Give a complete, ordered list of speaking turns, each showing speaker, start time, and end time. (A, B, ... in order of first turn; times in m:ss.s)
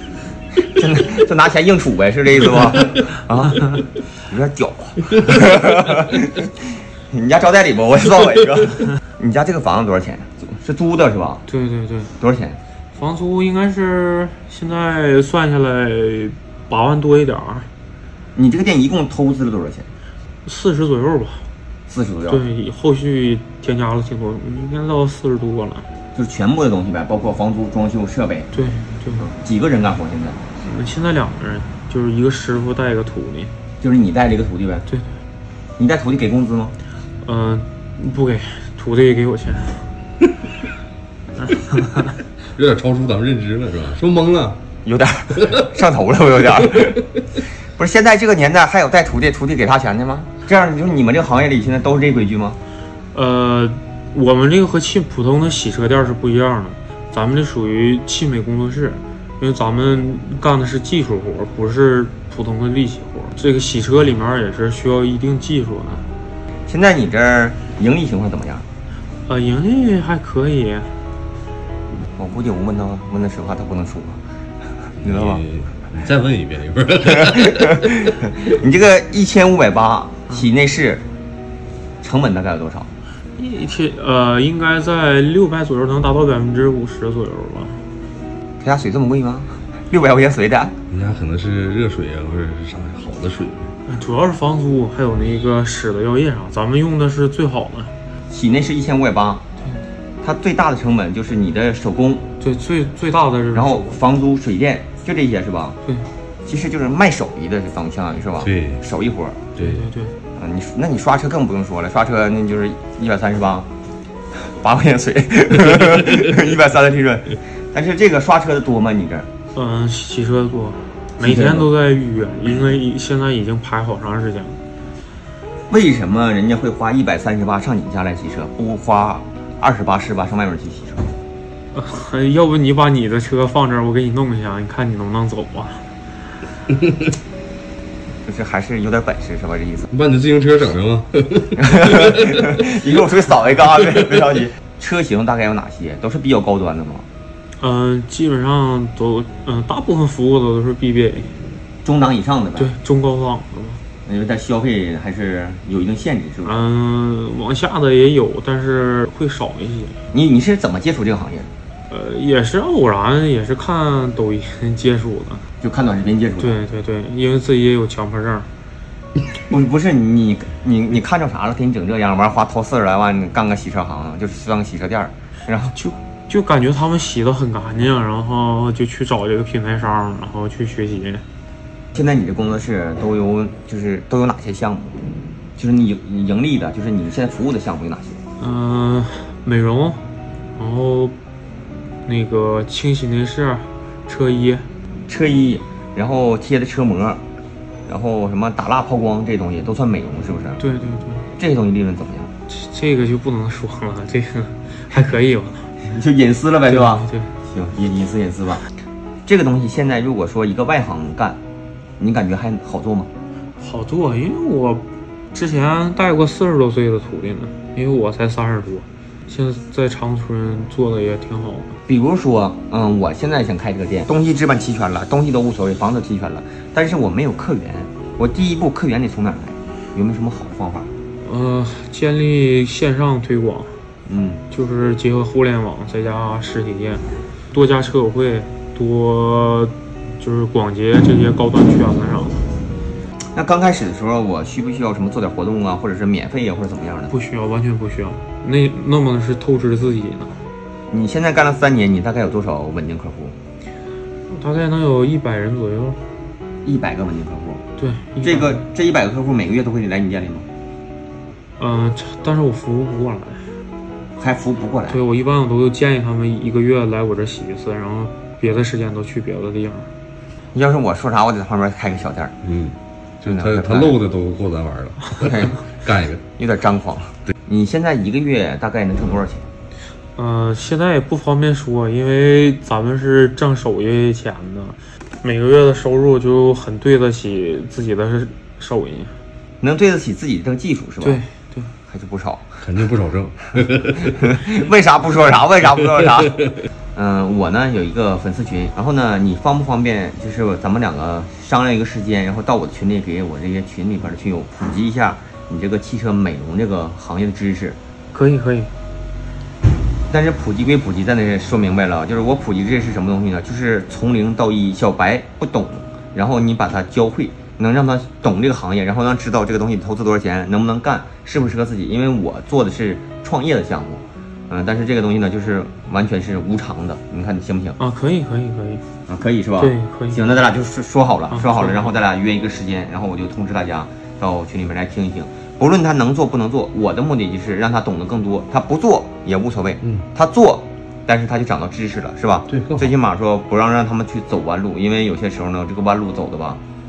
0:00.6-0:03.7 A
0:04.3-0:06.5 A
0:07.1-0:11.4 A
0:11.5-0:12.1 B
0:12.2-0:12.6 A
0:12.9-0:17.7 B
0:18.4-0:19.9 A
0:20.4-0:21.5 B
0:21.9-0:22.4 A
0:22.3-0:25.9 B
0:26.2-0:28.5 A
0:28.5-0:29.3 B
0:29.2-0:30.4 A
0:30.6-0:33.5 B
0:33.8-0:34.9 A
0:35.8-0:36.8 A
0:37.2-0:39.9 B
0:41.4-0:42.1 B
0:42.6-0:44.6 C
0:44.8-0:47.0 A
0:47.8-0:52.6 A
0:53.1-1:06.1 B
1:06.7-1:08.7 A
1:09.3-1:10.9 B
1:12.2-1:14.2 A
1:15.0-1:15.4 A
1:15.0-1:17.9 C
1:17.6-1:21.0 A
1:22.0-1:22.9 A
1:23.4-1:27.8 B
1:28.6-1:30.8 A
1:30.9-1:33.7 C
1:33.9-1:37.9 B
1:38.3-1:39.4 A
1:40.2-1:42.2 A
1:42.4-1:44.0 B
1:43.5-1:45.8 A
1:46.5-1:49.4 A
1:48.4-1:48.8 C
1:49.6-1:50.1 B
1:50.4-1:53.7 A
1:54.4-1:59.3 A
1:59.5-2:04.6 B
2:01.2-2:01.7 A
2:05.7-2:11.1 A
2:11.7-2:15.9 B
2:18.3-2:19.9 A
2:19.9-2:22.2 C
2:21.6-2:27.1 A
2:27.6-2:31.4 B
2:31.8-2:32.7 A
2:32.6-2:33.8 B
2:34.1-2:36.6 A
2:36.4-2:40.0 B
2:40.1-2:41.5 A
2:41.9-2:45.4 B
2:45.6-2:46.6 A
2:46.4-2:48.5 B
2:49.5-2:55.8 A
2:55.7-3:01.2 B
3:01.9-3:05.0 A
3:05.6-3:08.2 A
3:08.4-3:11.2 B
3:12.0-3:14.7 B
3:15.1-3:17.2 A
3:17.9-3:20.6 A
3:20.6-3:21.3 B
3:21.4-3:22.3 A
3:22.5-3:25.7 B
3:25.8-3:28.6 A
3:26.7-3:27.3 B
3:29.3-3:31.4 A
3:32.0-3:33.1 A
3:33.6-3:41.8 B
3:41.9-3:50.9 A
3:51.2-3:53.8 B
3:54.1-3:54.4 A
3:54.5-4:02.5 B
4:03.3-4:07.1 A
4:07.1-4:10.4 B
4:10.9-4:13.4 A
4:14.3-4:16.0 B
4:16.6-4:17.6 A
4:17.8-4:18.6 B
4:18.2-4:20.5 A
4:21.6-4:23.5 B
4:24.2-4:25.0 A
4:24.9-4:29.9 B
4:30.5-4:32.4 A
4:32.4-4:36.2 C
4:33.2-4:34.0 A
4:35.2-4:35.6 A
4:36.4-4:39.5 A
4:40.2-4:49.2 B
4:49.6-4:51.2 A
4:51.0-4:51.7 B
4:51.9-4:52.4 A
4:52.6-4:54.1 C
4:54.2-5:07.8 A
5:08.1-5:08.7 B
5:10.1-5:27.8 A
5:27.8-5:28.8 B
5:29.1-5:46.6 A
5:29.6-5:30.2 B
5:31.3-5:31.9 B
5:42.5-5:42.9 C